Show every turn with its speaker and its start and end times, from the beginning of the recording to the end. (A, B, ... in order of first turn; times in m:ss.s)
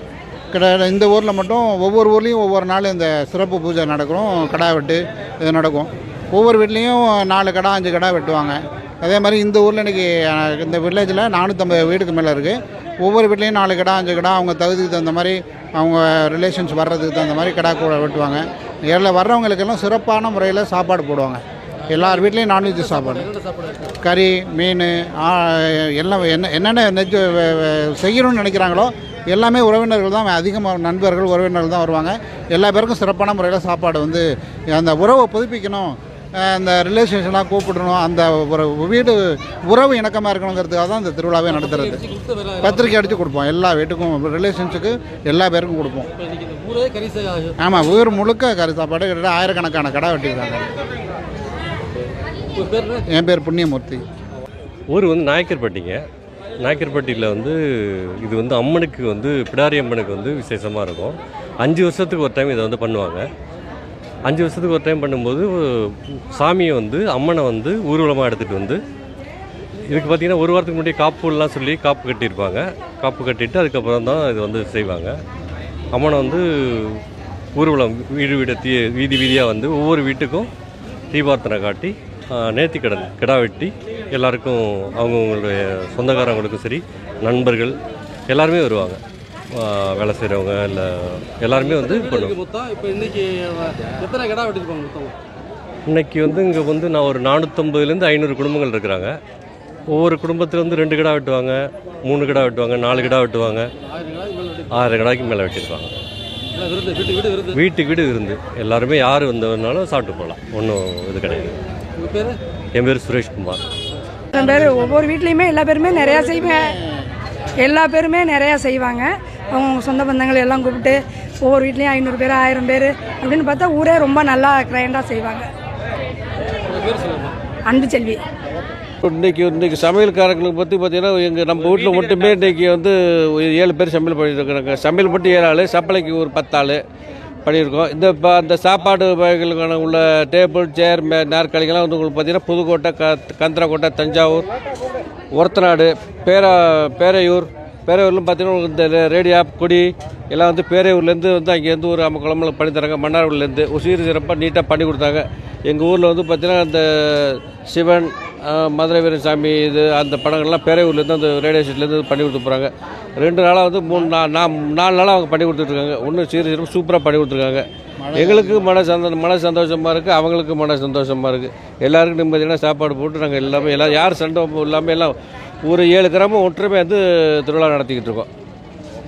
0:00.5-0:23.3 A
0:23.3-0:23.9 B
0:24.0-0:42.1 A
0:41.8-0:42.8 B
0:42.6-0:46.1 A
0:46.4-0:47.6 B
0:47.6-0:50.7 A
0:52.6-0:53.0 B
0:53.1-0:54.0 A
0:54.9-0:56.0 C
0:56.6-1:03.3 C
1:04.3-1:08.8 C
1:09.9-1:15.1 C
1:15.9-1:17.0 C
1:17.6-1:20.5 C
1:21.1-1:27.8 C
1:28.3-1:29.0 C
1:29.6-1:32.4 C
1:32.0-1:35.1 B
1:35.9-1:39.2 C
1:39.9-1:43.7 C
1:43.9-1:44.7 B
1:44.7-1:45.9 C
1:46.6-1:47.5 B
1:47.5-1:51.5 C
1:52.0-1:52.4 B
1:52.8-1:53.6 C
1:54.3-1:56.8 D
1:57.6-2:05.5 D
2:06.7-2:07.3 B
2:07.7-2:08.2 D
2:09.0-2:16.8 E
2:17.4-2:24.5 E
2:25.3-2:58.3 E
2:48.0-2:48.7 A